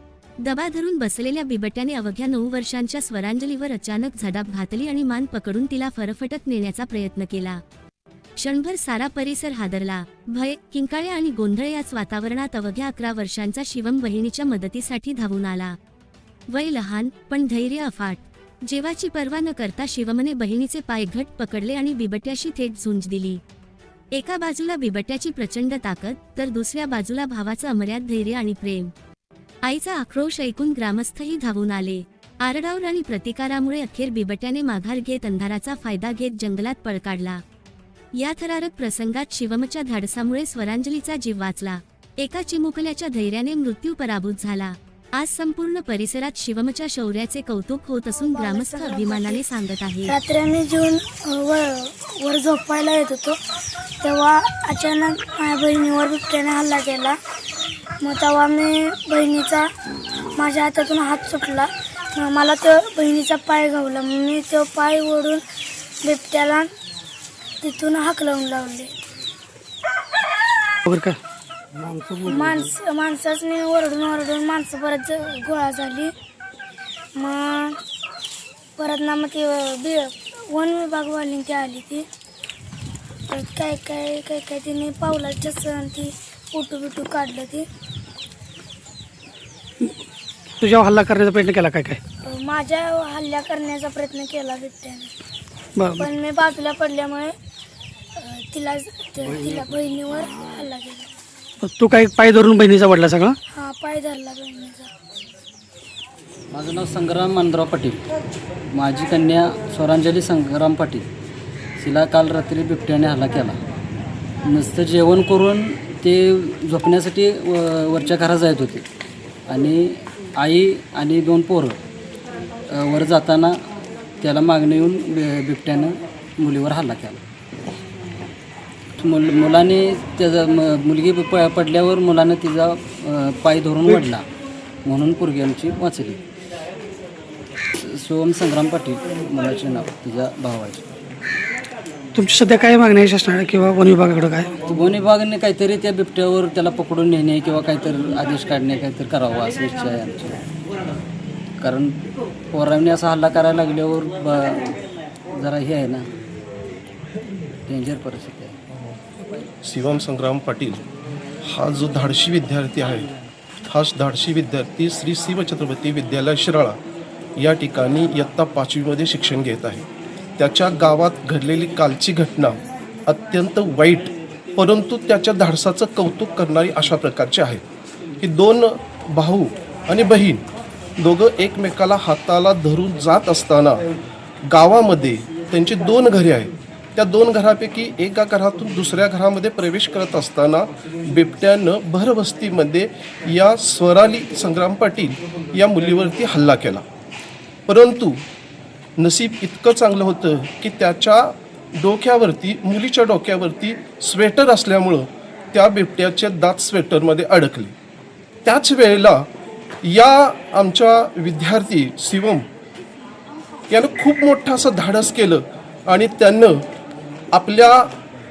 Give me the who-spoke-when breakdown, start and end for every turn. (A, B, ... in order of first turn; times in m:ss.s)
0:00.4-0:07.6 A
0:08.4-0:15.8 A
0:16.5-0:23.4 A
0:24.1-0:28.9 A
0:29.6-0:37.4 A
0:38.2-0:50.2 A
0:48.2-0:49.4 B
0:50.1-0:53.4 B
0:54.0-0:57.2 B
0:58.0-0:59.7 B
1:00.3-1:05.4 B
1:06.0-1:06.7 B
1:07.6-1:08.9 B
1:10.8-1:11.2 C
1:11.8-1:12.2 C
1:12.2-1:16.1 B
1:17.2-1:17.8 B
1:18.8-1:22.1 B
1:23.3-1:27.7 B
1:30.6-1:32.0 C
1:32.2-1:35.1 B
1:35.8-1:36.0 C
1:35.9-1:37.4 B
1:38.1-1:41.1 B
1:41.6-1:43.4 C
1:43.5-1:44.9 B
1:46.5-1:48.1 D
1:48.7-1:51.1 D
1:51.8-1:53.6 D
1:54.4-1:58.8 D
1:59.5-2:01.8 D
2:02.7-2:03.5 D
2:04.2-2:07.2 D
2:09.0-2:14.2 D
2:14.8-2:16.2 D
2:17.8-2:20.8 D
2:22.1-2:24.5 C
2:24.7-2:30.4 D
2:31.6-2:32.0 D
2:32.5-2:34.7 D
2:35.3-2:36.0 D
2:37.7-2:38.6 D
2:39.6-2:40.8 E
2:41.4-2:43.1 E
2:43.7-2:46.8 E
2:47.4-2:49.8 E
2:50.4-2:57.6 E
2:58.2-3:00.4 E
3:01.0-3:03.8 E
3:04.5-3:16.8 E
3:17.7-3:18.2 E
3:19.0-3:27.7 E
3:28.4-3:29.2 E
3:29.8-3:32.4 E
3:33.7-3:36.6 E
3:37.3-3:37.9 E